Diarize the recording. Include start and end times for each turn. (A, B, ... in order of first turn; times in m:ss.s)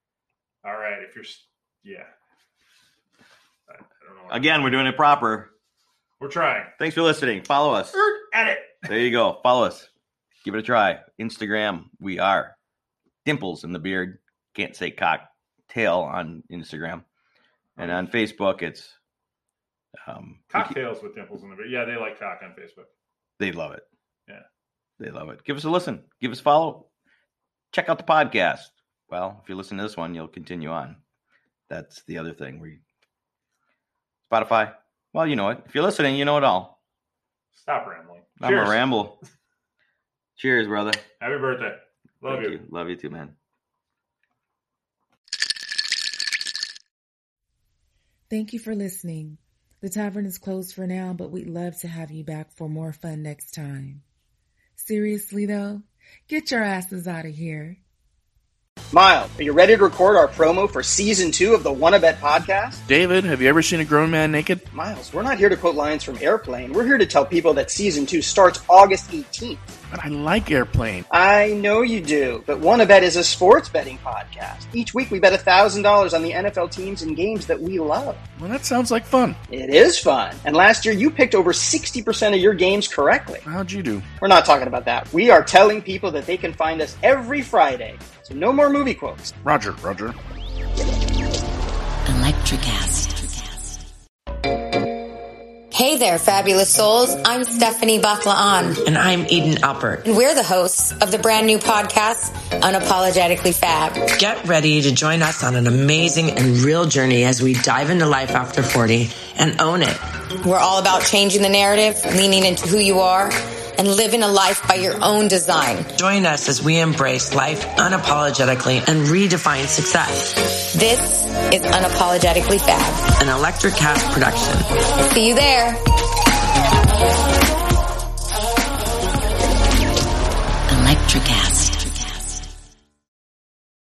0:00.6-0:02.1 A
0:03.7-0:04.5 A
0:04.3-0:05.5 B
0:06.2-0:06.7 A
0:06.8-0:08.0 B
0:07.9-0:08.9 A
0:08.8-0:09.9 B
0:10.4-0:12.5 B
0:13.2-0:17.0 B
0:17.8-0:18.1 A
0:17.8-0:19.0 B
0:20.0-0:20.8 B
0:20.5-0:22.9 A
0:23.4-0:23.8 B
0:25.0-0:26.9 B
0:27.7-0:31.0 B
0:31.7-0:32.8 B
0:34.3-0:36.8 B
0:37.5-0:38.9 A
0:38.4-0:39.2 B
0:40.4-0:41.0 B
0:41.2-0:42.6 A
0:42.2-0:43.3 B
0:48.3-0:54.0 C
0:54.8-0:57.8 C
0:58.9-1:02.8 D
1:02.8-1:04.6 E
1:04.7-1:09.7 D
1:09.9-1:11.0 E
1:11.1-1:18.2 D
1:18.4-1:19.4 E
1:19.5-1:23.4 D
1:23.4-1:24.1 E
1:24.2-1:29.3 D
1:29.4-1:30.1 E
1:32.0-1:33.8 F
1:35.7-1:38.8 G
1:38.8-1:40.0 F
1:40.0-1:44.1 G
1:44.2-1:50.0 F
1:50.4-1:55.9 G
1:55.9-2:00.3 F
2:00.7-2:03.1 G
2:03.2-2:04.7 F
2:05.0-2:05.8 G
2:10.7-2:12.4 F